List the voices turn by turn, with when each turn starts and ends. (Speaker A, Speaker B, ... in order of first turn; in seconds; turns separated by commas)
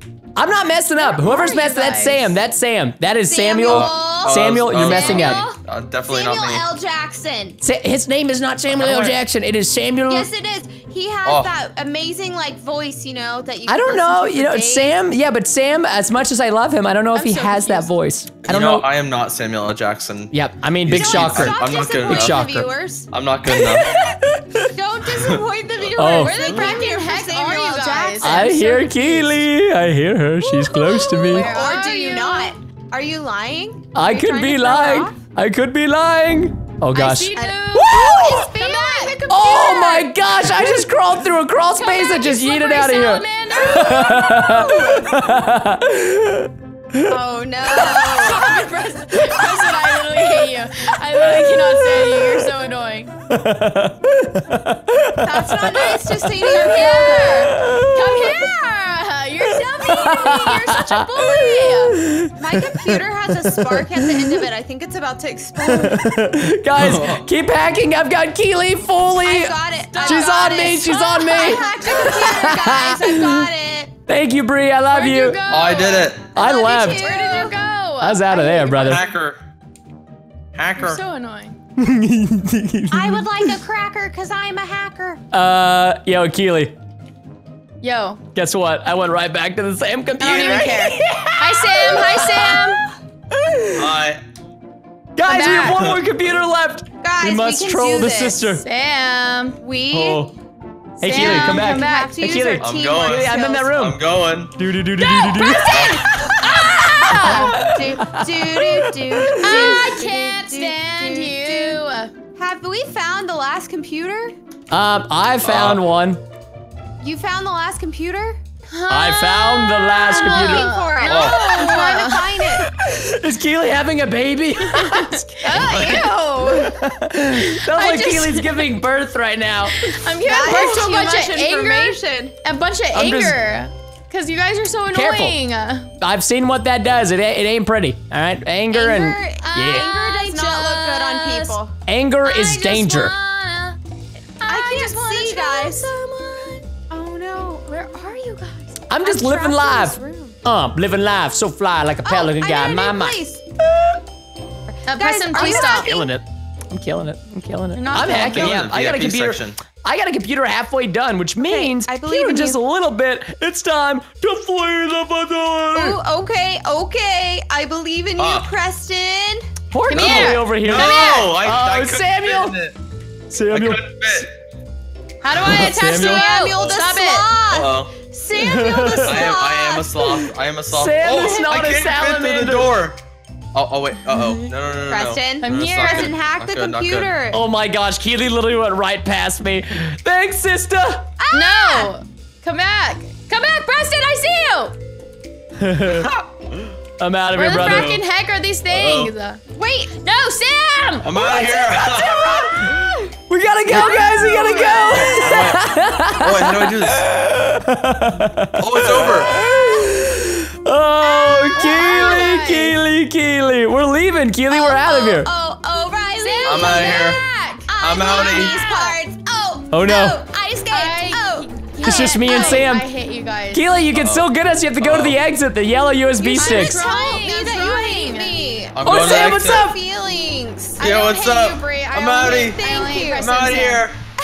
Speaker A: 0.3-5.5, Speaker B: 1.0-2.3, Speaker C: 3.2-7.6, Speaker D: 3.7-6.7, Speaker A: 7.6-10.3, Speaker D: 8.7-9.2, Speaker C: 10.1-15.0, Speaker D: 11.2-11.5, Speaker A: 13.7-18.9, Speaker C: 17.1-17.9, Speaker D: 18.4-22.4, Speaker A: 20.3-22.7, Speaker C: 20.9-23.1, Speaker D: 23.1-23.9, Speaker A: 23.4-24.7, Speaker C: 24.7-28.7, Speaker B: 25.9-29.4, Speaker A: 26.0-26.4, Speaker A: 28.2-31.6, Speaker C: 30.4-35.2, Speaker B: 30.7-32.5, Speaker A: 33.9-38.5, Speaker B: 36.9-40.1, Speaker C: 37.3-39.2, Speaker A: 39.3-47.1, Speaker B: 41.7-44.0, Speaker C: 43.5-45.2, Speaker C: 47.0-48.7, Speaker B: 48.1-53.1, Speaker C: 49.4-49.7, Speaker A: 51.5-52.3, Speaker A: 53.3-58.3, Speaker C: 55.2-57.6, Speaker B: 56.5-62.0, Speaker A: 59.9-63.0, Speaker C: 62.4-66.2, Speaker A: 63.5-64.0, Speaker A: 65.7-73.4, Speaker D: 66.7-67.3, Speaker C: 69.2-73.9, Speaker B: 69.9-72.8, Speaker A: 74.1-75.4, Speaker B: 74.9-76.2, Speaker D: 75.5-76.2, Speaker A: 76.3-77.1, Speaker C: 76.3-77.6, Speaker B: 76.9-79.0, Speaker A: 78.0-79.0, Speaker D: 78.7-79.4, Speaker D: 80.5-81.0, Speaker B: 80.8-81.5, Speaker A: 81.8-83.5, Speaker C: 82.9-85.2, Speaker A: 85.3-86.7, Speaker B: 87.8-88.2, Speaker A: 88.3-92.6, Speaker B: 90.2-92.8, Speaker D: 90.2-90.8, Speaker A: 93.4-93.8, Speaker D: 93.7-94.2, Speaker A: 95.2-98.6, Speaker B: 95.2-95.8, Speaker D: 95.6-96.0, Speaker C: 97.0-98.6, Speaker B: 98.6-99.6, Speaker C: 99.6-100.3, Speaker A: 99.9-100.3, Speaker B: 101.0-102.5, Speaker A: 101.0-109.8, Speaker C: 101.0-103.7, Speaker D: 102.6-104.6, Speaker B: 105.0-107.7, Speaker C: 105.3-111.8, Speaker D: 105.7-106.0, Speaker B: 109.4-112.1, Speaker C: 112.4-114.3, Speaker A: 114.7-116.2, Speaker D: 115.4-115.8, Speaker C: 117.0-118.4, Speaker B: 118.7-122.4, Speaker A: 118.9-120.7, Speaker C: 120.1-122.7, Speaker D: 121.1-121.5, Speaker A: 122.6-125.7, Speaker B: 124.6-126.1, Speaker C: 125.5-126.8, Speaker D: 125.5-126.0, Speaker A: 126.5-129.8, Speaker B: 127.3-128.7, Speaker B: 129.7-135.9, Speaker C: 130.2-132.3, Speaker A: 132.9-133.4, Speaker A: 134.9-135.4, Speaker A: 136.0-139.9, Speaker C: 138.7-141.7, Speaker B: 139.4-141.6, Speaker A: 141.9-143.1, Speaker B: 142.2-143.8, Speaker B: 144.4-145.9, Speaker C: 144.5-150.3, Speaker A: 148.9-153.2, Speaker C: 152.0-153.4, Speaker C: 154.7-156.1, Speaker B: 154.8-156.0, Speaker A: 155.3-166.0, Speaker B: 157.7-158.7, Speaker D: 158.0-159.6, Speaker C: 161.4-162.6, Speaker C: 165.7-169.5, Speaker D: 168.2-168.5, Speaker A: 169.7-172.6, Speaker B: 169.8-171.3, Speaker D: 169.9-172.8, Speaker A: 173.3-174.2, Speaker D: 173.5-174.3, Speaker B: 175.2-177.3, Speaker D: 175.3-175.8, Speaker A: 175.5-176.3, Speaker C: 175.8-180.1, Speaker D: 177.5-177.9, Speaker A: 178.3-179.3, Speaker D: 179.1-183.0, Speaker A: 180.7-182.8, Speaker D: 183.5-187.1, Speaker C: 184.9-187.4, Speaker B: 185.4-186.1, Speaker A: 187.3-191.1, Speaker C: 191.2-191.9, Speaker B: 191.3-194.8, Speaker A: 195.6-196.1, Speaker D: 195.8-196.7, Speaker A: 197.0-197.9, Speaker B: 197.3-199.4, Speaker D: 197.5-198.0, Speaker D: 198.7-199.1, Speaker C: 199.5-200.0, Speaker B: 200.0-202.7, Speaker D: 201.0-202.8, Speaker C: 202.2-203.1, Speaker A: 203.3-215.3, Speaker B: 203.7-205.2, Speaker C: 203.9-205.0, Speaker D: 205.0-207.0, Speaker D: 208.6-209.3, Speaker B: 211.0-212.8, Speaker C: 211.5-212.2, Speaker C: 214.5-217.2, Speaker B: 216.1-219.0, Speaker D: 216.4-217.2, Speaker C: 217.7-222.7, Speaker D: 217.8-218.6, Speaker A: 219.7-220.2, Speaker B: 220.7-223.7, Speaker A: 221.8-222.9, Speaker A: 223.5-226.8, Speaker D: 223.9-225.2, Speaker C: 226.2-230.9, Speaker B: 226.4-228.4, Speaker D: 228.7-229.7, Speaker A: 228.8-229.7, Speaker B: 230.8-233.9, Speaker D: 230.8-232.6, Speaker C: 232.2-233.3, Speaker D: 233.2-234.0